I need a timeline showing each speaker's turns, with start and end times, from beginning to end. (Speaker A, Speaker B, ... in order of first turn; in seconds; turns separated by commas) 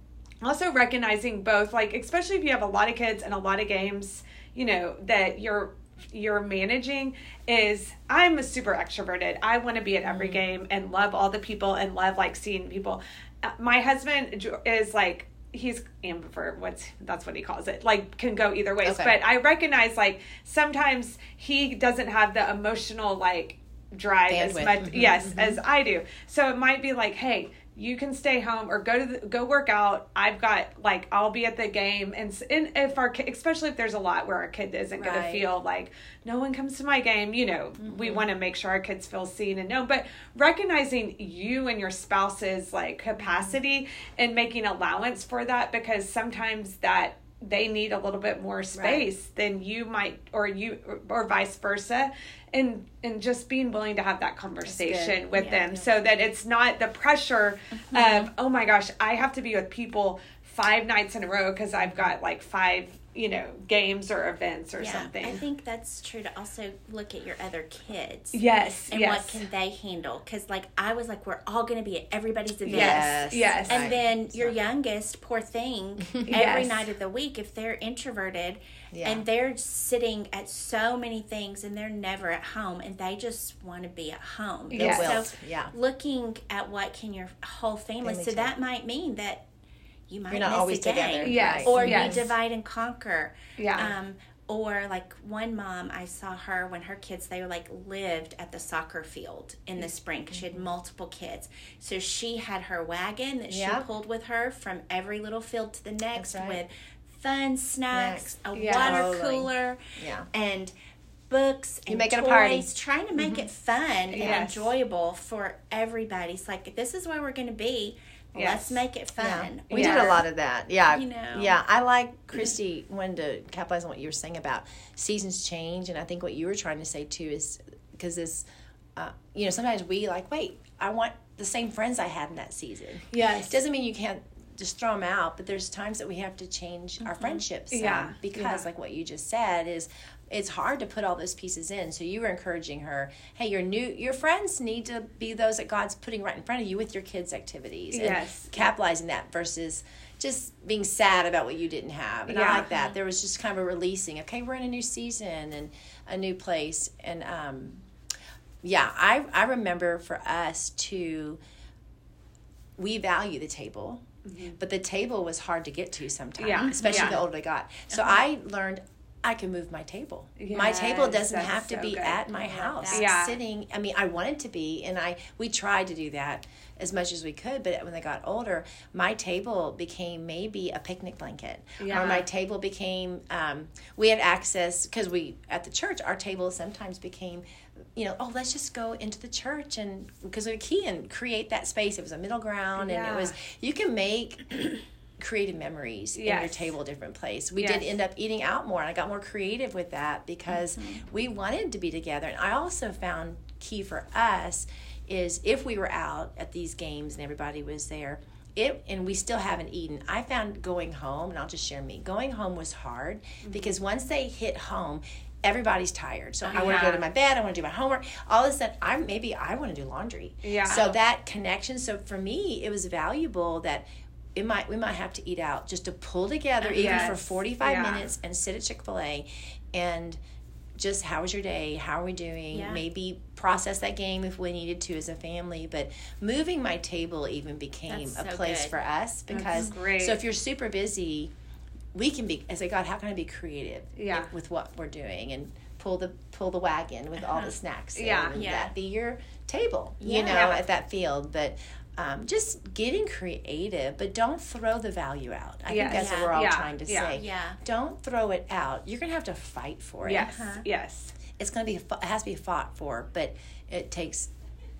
Speaker A: 0.4-65.4, Speaker B: 10.0-10.4, Speaker B: 18.8-19.1, Speaker B: 24.3-25.6, Speaker B: 35.0-35.5, Speaker B: 37.8-38.3, Speaker B: 43.2-43.6, Speaker B: 48.7-49.0, Speaker B: 54.6-56.3, Speaker C: 57.7-58.3, Speaker B: 61.8-62.1, Speaker C: 64.8-89.4, Speaker A: 68.3-69.4, Speaker A: 72.7-73.9, Speaker B: 72.7-74.5, Speaker A: 76.3-76.9, Speaker B: 78.9-79.2, Speaker A: 84.7-85.2, Speaker B: 84.7-85.7, Speaker B: 88.0-88.5, Speaker C: 90.1-109.8, Speaker B: 90.3-92.3, Speaker A: 91.2-92.2, Speaker A: 93.6-93.8, Speaker B: 100.3-100.7, Speaker B: 103.5-103.8, Speaker B: 106.1-106.6, Speaker B: 107.9-110.3, Speaker A: 108.5-109.1, Speaker C: 110.3-110.7, Speaker C: 111.3-120.2, Speaker B: 111.9-113.5, Speaker A: 114.1-114.7, Speaker A: 118.3-118.8, Speaker B: 119.2-128.4, Speaker A: 119.7-120.2, Speaker C: 120.9-121.5, Speaker B: 128.9-157.8, Speaker A: 133.1-133.6, Speaker A: 137.7-138.6, Speaker A: 147.9-148.5, Speaker A: 152.3-152.7, Speaker C: 152.4-152.9, Speaker B: 158.6-161.4, Speaker B: 162.8-164.0, Speaker A: 164.2-164.6, Speaker B: 164.6-230.2, Speaker A: 166.4-167.2, Speaker C: 166.5-167.2, Speaker C: 167.9-168.2, Speaker A: 170.4-173.4, Speaker C: 172.5-173.1, Speaker A: 181.8-182.2, Speaker A: 192.8-193.3, Speaker A: 196.2-196.7, Speaker A: 197.6-197.9, Speaker C: 200.7-201.0, Speaker A: 213.4-213.8, Speaker C: 216.4-216.9, Speaker A: 216.5-217.0, Speaker A: 220.4-220.9, Speaker C: 226.6-227.2, Speaker A: 226.8-228.1, Speaker B: 230.8-241.3, Speaker C: 232.5-232.8, Speaker C: 237.9-238.8, Speaker A: 239.3-240.2, Speaker C: 239.3-239.7, Speaker B: 241.9-260.5, Speaker A: 244.0-244.3, Speaker C: 247.2-247.5, Speaker A: 247.9-248.4, Speaker C: 248.3-248.7, Speaker C: 250.0-250.5, Speaker A: 250.2-250.6, Speaker A: 255.7-257.2, Speaker C: 255.8-256.3, Speaker C: 257.1-257.6, Speaker A: 260.0-261.1, Speaker C: 260.2-260.6, Speaker B: 261.3-264.3